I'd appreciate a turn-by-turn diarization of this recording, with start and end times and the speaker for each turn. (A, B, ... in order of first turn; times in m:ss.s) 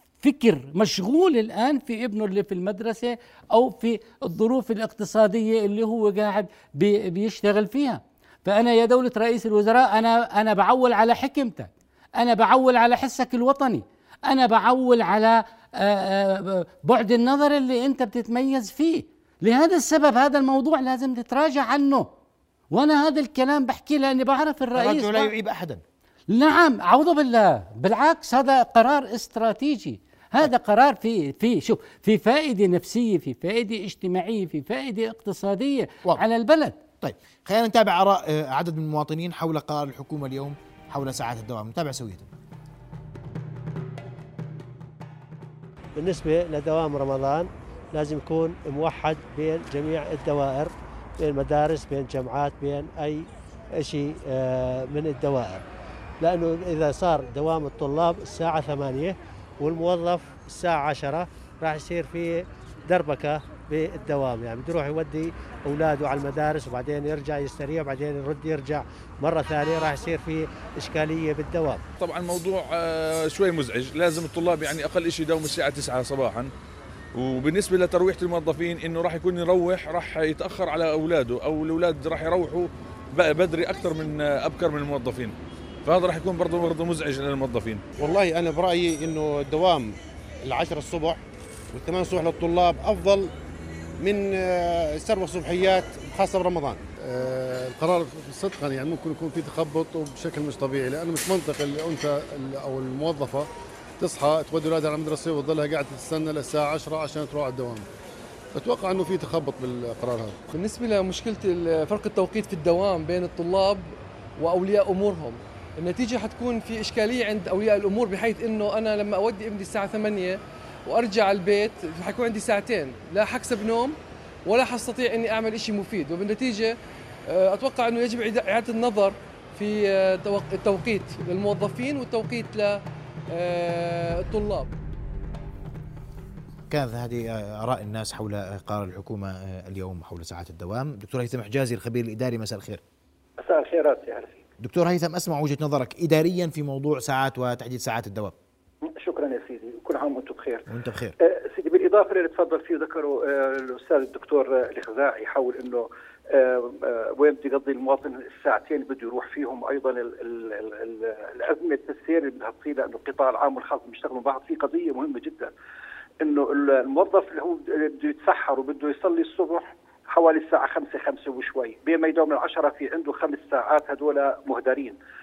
0:00.2-0:22.1 A
0:22.7-0:25.3 A
0:24.7-0:25.8 B
0:26.3-0:36.8 A
0:37.0-0:42.3 B
0:46.0-0:55.6 C
0:56.2-1:11.8 C
1:12.0-1:16.5 D
1:17.2-1:27.8 D
1:28.0-1:31.2 E
1:31.7-1:33.3 E
1:34.0-1:36.8 E
1:36.3-1:47.9 F
1:48.6-1:50.5 F
1:50.5-1:53.9 G
1:54.4-2:06.7 G
2:07.3-2:12.8 G
2:13.3-2:14.7 G
2:16.7-2:22.8 B
2:23.4-2:24.4 H
2:24.6-2:28.4 B
2:28.9-2:30.6 H
2:30.7-2:31.2 B
2:31.2-2:45.5 H
2:46.2-2:55.0 H